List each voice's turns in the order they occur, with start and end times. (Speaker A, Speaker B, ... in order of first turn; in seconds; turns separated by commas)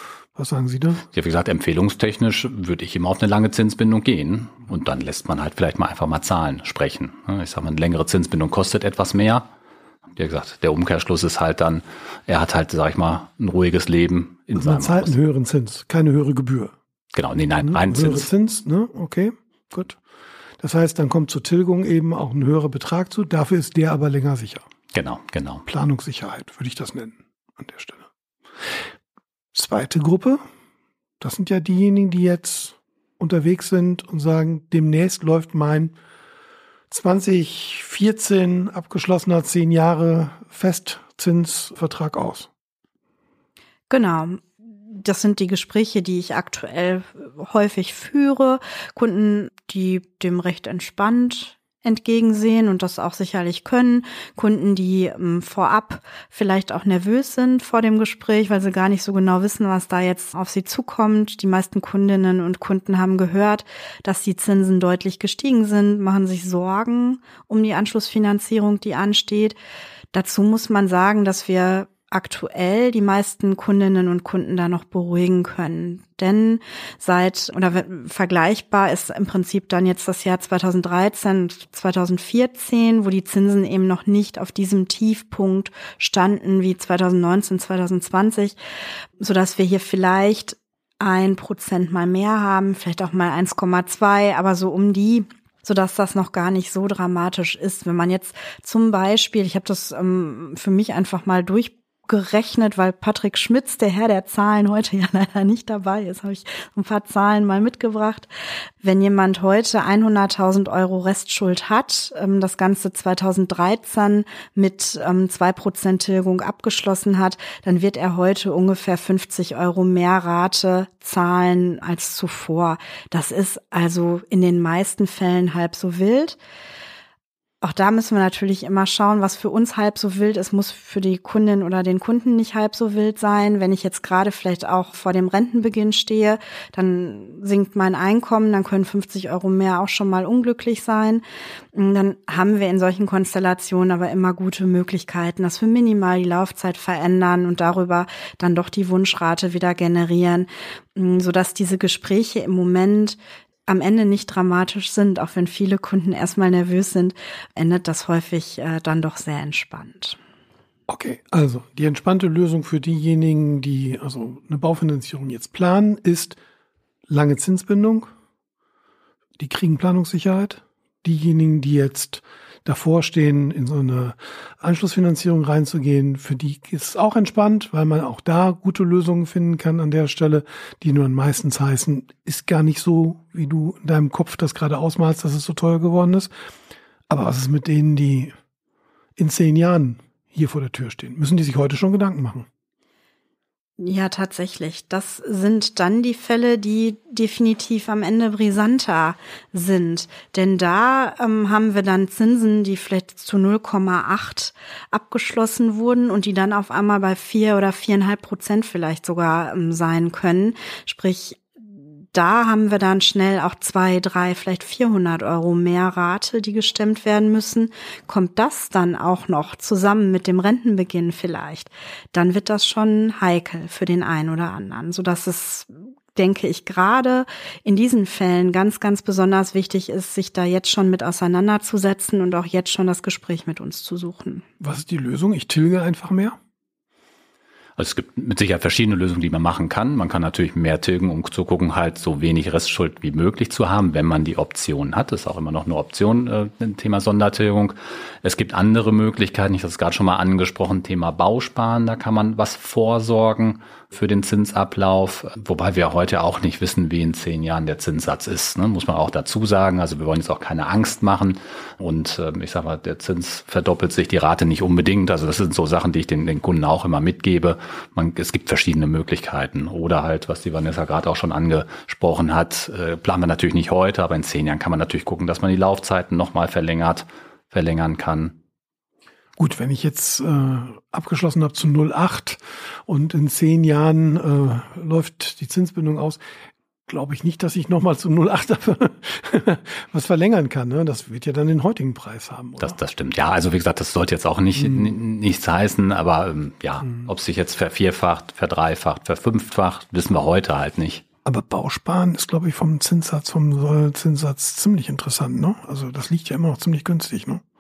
Speaker A: 0.4-1.0, Speaker B: 1.1-9.5, Speaker B: 10.2-15.1, Speaker A: 14.6-16.7, Speaker B: 17.1-18.3, Speaker A: 17.6-20.0, Speaker A: 20.6-24.7, Speaker B: 24.9-25.6, Speaker A: 25.7-28.1, Speaker A: 29.5-30.4, Speaker A: 31.2-36.0, Speaker A: 36.9-42.5, Speaker C: 43.9-69.6, Speaker C: 70.1-88.6, Speaker C: 89.2-108.3, Speaker C: 108.8-126.4, Speaker C: 127.6-160.2, Speaker A: 160.9-166.4, Speaker A: 167.1-168.1, Speaker A: 169.4-186.3, Speaker A: 187.1-188.3, Speaker A: 189.2-192.5, Speaker C: 193.8-211.5, Speaker C: 212.1-234.4, Speaker A: 234.6-236.4, Speaker B: 237.8-278.4, Speaker A: 279.4-286.2, Speaker A: 286.9-292.8, Speaker B: 292.6-301.0, Speaker A: 301.2-307.4